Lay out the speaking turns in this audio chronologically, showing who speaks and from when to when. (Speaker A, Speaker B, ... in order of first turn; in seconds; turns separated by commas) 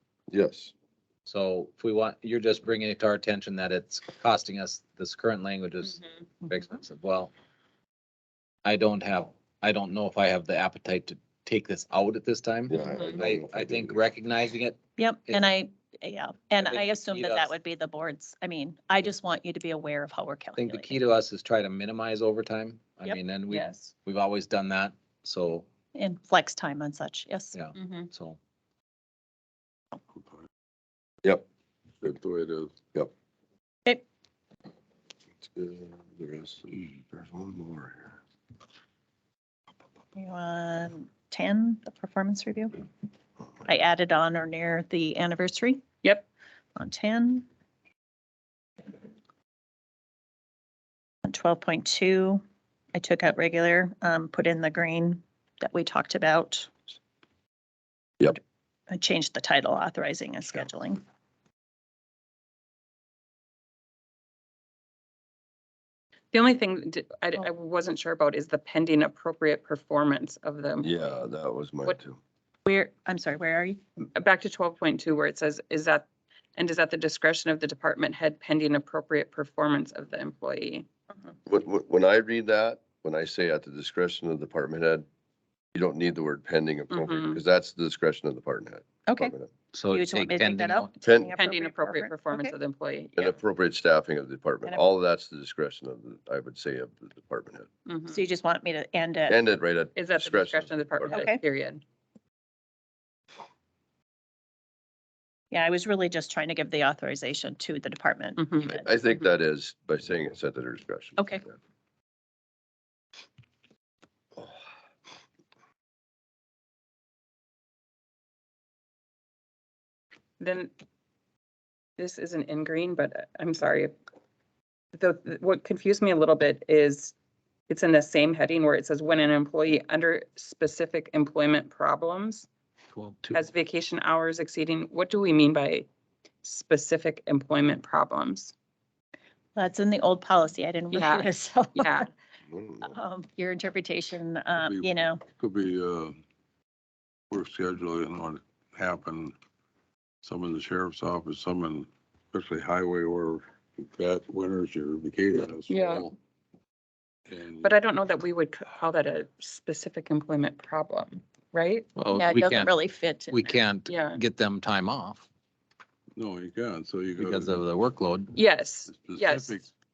Speaker A: 0.3-0.7, Speaker B: 1.2-7.3, Speaker B: 8.6-15.5, Speaker A: 12.7-14.0, Speaker C: 12.9-13.2, Speaker D: 15.0-21.0, Speaker B: 16.6-17.6, Speaker B: 20.6-25.7, Speaker C: 23.5-23.9, Speaker D: 25.9-27.6, Speaker B: 27.5-28.4, Speaker C: 27.7-28.1, Speaker E: 32.0-32.7, Speaker A: 35.4-38.2, Speaker D: 40.1-42.8, Speaker D: 43.6-45.8, Speaker D: 46.8-47.5, Speaker D: 51.2-52.4, Speaker D: 52.9-56.7, Speaker D: 58.9-61.0, Speaker C: 66.3-70.9, Speaker A: 70.8-72.2, Speaker D: 72.7-73.8, Speaker C: 74.0-80.9, Speaker A: 81.5-85.0, Speaker A: 85.7-89.5, Speaker C: 86.9-87.4, Speaker D: 89.1-89.3, Speaker B: 89.7-90.9, Speaker D: 89.9-92.5, Speaker A: 91.0-91.3, Speaker C: 91.4-93.4, Speaker A: 93.2-97.7, Speaker C: 97.8-98.2, Speaker D: 98.1-99.3, Speaker A: 99.3-101.3, Speaker C: 100.0-101.8, Speaker D: 101.1-101.4, Speaker D: 105.5-108.8, Speaker C: 108.4-108.9, Speaker A: 108.7-111.5, Speaker D: 111.2-111.4, Speaker C: 120.4-120.7, Speaker C: 122.0-123.9, Speaker C: 124.9-127.1, Speaker C: 127.7-132.5, Speaker B: 132.9-133.4, Speaker C: 133.3-135.9, Speaker C: 136.4-138.5, Speaker D: 139.6-142.1, Speaker C: 140.9-142.1, Speaker A: 142.5-142.9, Speaker D: 142.8-145.2, Speaker E: 144.6-146.2, Speaker E: 147.3-149.3, Speaker E: 150.2-156.1, Speaker C: 155.7-156.1, Speaker E: 157.3-157.7, Speaker C: 157.6-161.9, Speaker B: 161.9-162.8, Speaker D: 162.1-163.6, Speaker B: 163.3-165.3, Speaker C: 163.9-164.2, Speaker E: 166.2-167.6, Speaker B: 167.2-168.4, Speaker C: 168.3-169.6, Speaker E: 168.9-169.7